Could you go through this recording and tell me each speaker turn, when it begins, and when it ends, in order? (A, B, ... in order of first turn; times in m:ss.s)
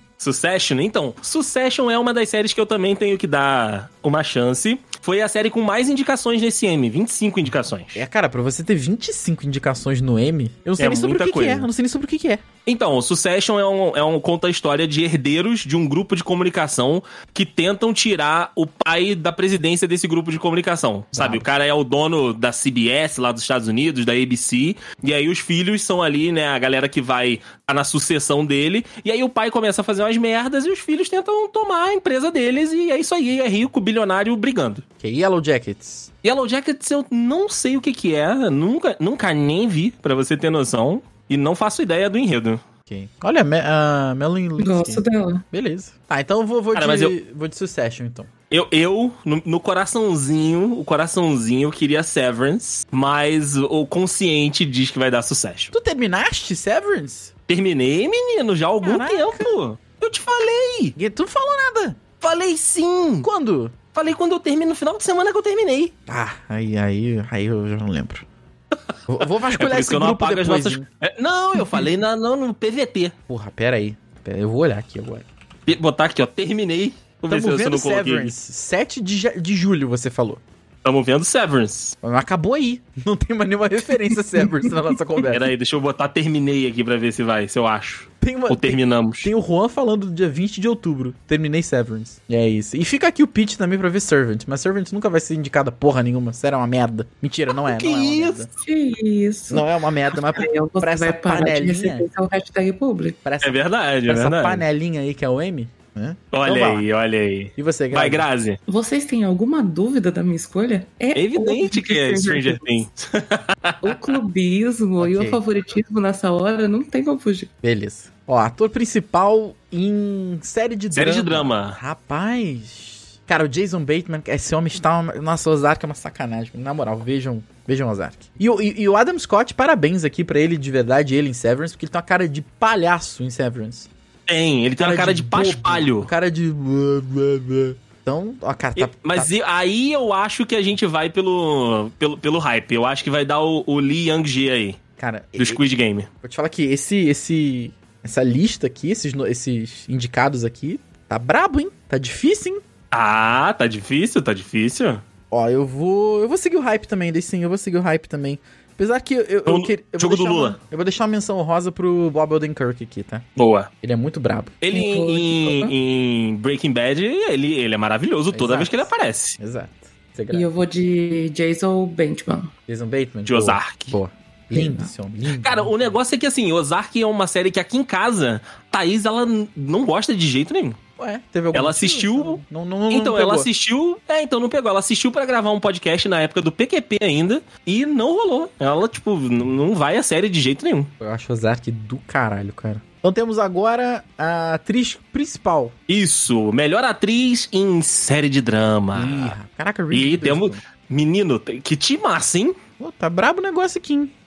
0:00.2-0:08.0 A
0:08.0-0:12.4 B
0:10.8-0:11.7 A
0:12.7-0:34.8 A
0:21.1-0:21.5 B
0:35.0-0:36.1 B
0:36.2-0:42.6 A
0:42.9-0:48.3 B
0:44.6-0:45.4 C
0:46.7-0:47.1 A
0:48.5-0:55.7 A
0:55.7-0:57.3 B
0:57.5-1:01.0 A
0:58.8-0:59.5 B
1:01.0-1:02.0 B
1:02.2-1:03.3 A
1:03.2-1:03.8 B
1:03.9-1:05.9 A
1:06.1-1:08.2 B
1:09.1-1:10.8 B
1:09.4-1:13.1 A
1:13.3-1:15.3 B
1:15.7-1:18.3 A
1:17.3-1:20.4 B
1:20.8-1:22.0 A
1:22.0-1:25.5 B
1:25.3-1:29.3 A
1:28.2-1:38.5 B
1:37.6-1:38.5 A
1:38.6-1:39.6 C
1:39.5-1:42.1 B
1:40.2-1:43.2 C
1:43.2-1:46.9 B
1:43.4-1:44.6 A
1:46.3-1:48.6 A
1:47.6-1:48.3 B
1:48.7-1:52.6 C
1:51.2-1:54.0 A
1:53.8-1:57.5 C
1:55.0-1:55.4 B
1:57.6-2:13.9 B
2:00.9-2:01.8 A
2:14.3-2:16.1 A
2:14.8-2:19.3 B
2:18.8-2:24.8 A
2:25.0-2:25.6 B
2:25.4-2:26.1 A
2:26.2-2:32.6 B
2:32.9-2:35.0 A
2:35.3-2:43.2 B
2:39.5-2:40.6 A
2:43.4-2:43.7 A
2:43.8-2:44.6 B
2:44.6-2:49.4 A
2:44.7-2:45.7 C
2:48.3-2:50.5 B
2:50.3-2:52.5 C
2:52.7-2:55.9 B
2:53.3-2:54.0 A
2:54.5-2:54.9 C
2:55.4-3:00.8 A
3:01.0-3:03.5 B
3:01.5-3:02.4 A
3:02.9-3:10.9 A
3:11.0-3:15.7 B
3:15.9-3:19.4 A
3:18.9-3:20.6 B
3:19.9-3:22.6 A
3:22.8-3:24.1 B